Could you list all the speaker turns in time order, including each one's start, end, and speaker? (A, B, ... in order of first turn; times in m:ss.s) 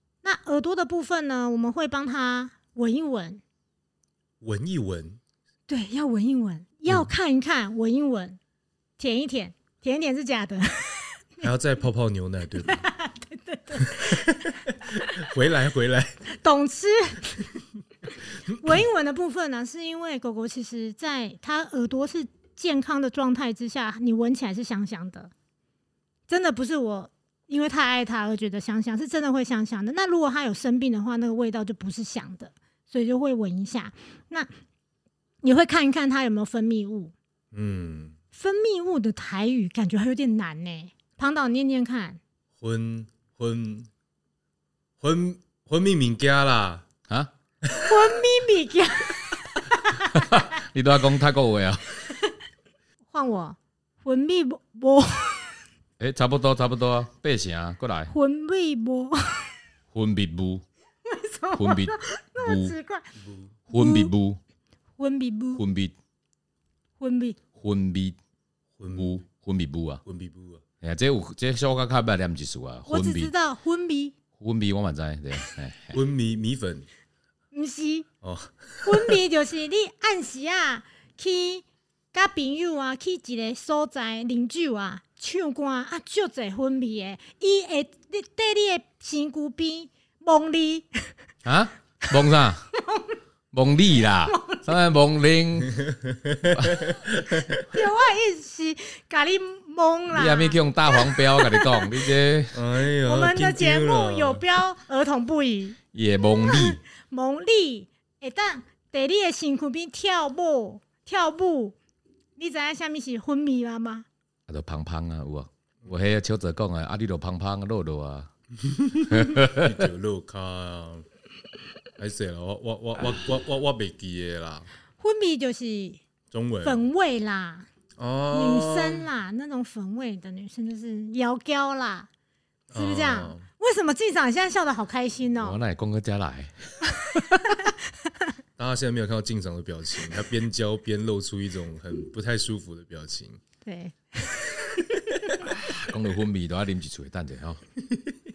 0:00.2-0:03.4 A
0:04.4-0:05.2 B
0:05.7-0:08.4 A
0:09.0-0:11.4 A
0:11.4-0:12.8 B
0:12.6-0:14.6 A
0:13.8-0:16.2 B
0:16.3-0:17.4 A
0:18.1-0:25.3 A
0:26.3-0:34.5 A
0:35.4-0:37.1 A
0:37.5-0:38.1 B
0:38.3-0:42.2 A
0:42.6-0:43.9 B
0:45.0-0:46.8 B
0:47.8-0:50.4 A
0:50.1-0:51.8 C
0:53.1-0:55.6 A
0:56.0-0:58.1 C
0:58.1-0:59.5 A
0:59.9-1:00.6 C
1:01.0-1:03.1 A
1:01.6-1:02.7 C
1:03.2-1:03.5 B
1:03.7-1:04.4 C
1:03.7-1:04.1 A
1:05.0-1:05.6 A
1:05.5-1:05.9 C
1:07.0-1:07.4 A
1:07.6-1:08.2 C
1:08.8-1:09.2 B
1:09.0-1:10.0 C
1:10.0-1:10.6 B
1:10.8-1:13.3 C
1:12.9-1:14.1 A
1:14.4-1:16.0 C
1:15.9-1:16.8 B
1:17.5-1:18.1 A
1:18.2-1:19.2 B
1:18.8-1:31.1 A
1:31.4-1:32.6 C
1:32.7-1:33.2 A
1:33.5-1:35.8 C
1:34.2-1:34.6 A
1:35.7-1:37.6 B
1:36.5-1:36.9 C
1:37.5-1:41.8 A
1:40.1-1:42.6 C
1:42.5-1:44.6 B
1:43.0-1:51.8 A
1:45.9-1:46.8 C
1:52.4-1:54.0 A
1:54.5-1:58.3 C
1:58.8-2:01.0 B
1:59.1-1:59.8 C
2:02.0-2:04.7 B
2:05.0-2:06.0 A
2:06.3-2:06.8 B
2:06.6-2:07.7 A
2:08.0-2:09.1 B
2:08.3-2:12.1 A
2:12.7-2:13.4 B
2:12.7-2:15.6 A
2:15.4-2:17.5 C
2:17.5-2:18.3 A
2:18.6-2:23.4 B
2:23.6-2:25.3 A
2:25.4-2:27.6 C